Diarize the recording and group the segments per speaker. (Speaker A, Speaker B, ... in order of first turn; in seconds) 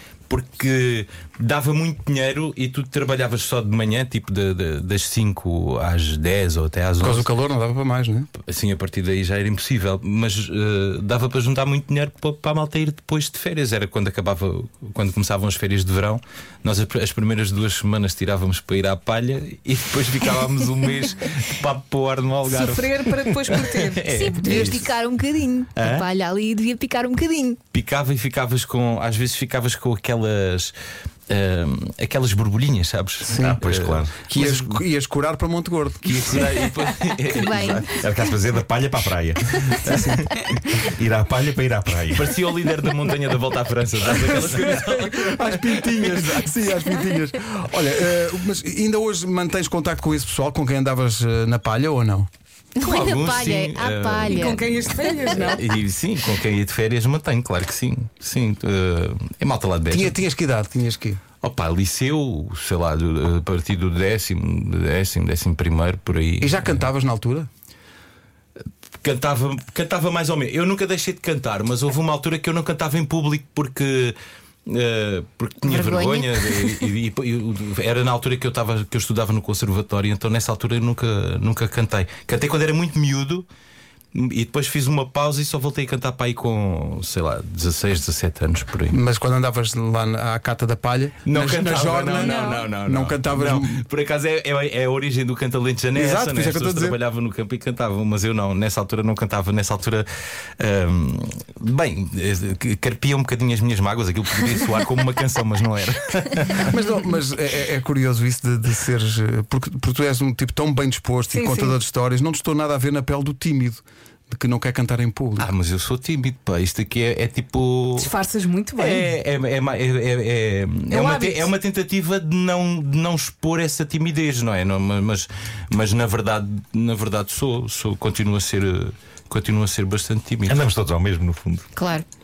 Speaker A: 0.3-7.3, 8.4-25.0, 25.8-26.1, 27.7-30.7, 31.3-34.8, 36.0-38.0, 42.1-46.2, 52.8-54.4, 55.3-60.2, 61.4-66.9, 69.0-74.2, 74.7-83.5, 84.1-89.0, 91.2-100.1, 100.6-106.8, 115.4-118.1, 118.8-130.6
Speaker B: 7.0-8.3, 24.4-24.8, 33.3-33.6, 34.3-36.5, 39.8-40.3, 44.1-52.3, 59.9-61.2, 66.4-67.5, 88.9-93.8, 96.0-97.0, 106.6-115.5
Speaker C: 22.5-24.2, 54.3-55.7, 111.3-111.8, 118.0-119.1, 120.9-121.5
Speaker D: 24.1-27.6, 37.3-37.9, 52.8-55.4, 75.6-76.9, 92.2-92.6, 131.8-132.1
Speaker E: 33.4-34.2, 37.9-40.1, 40.7-42.3, 130.5-131.7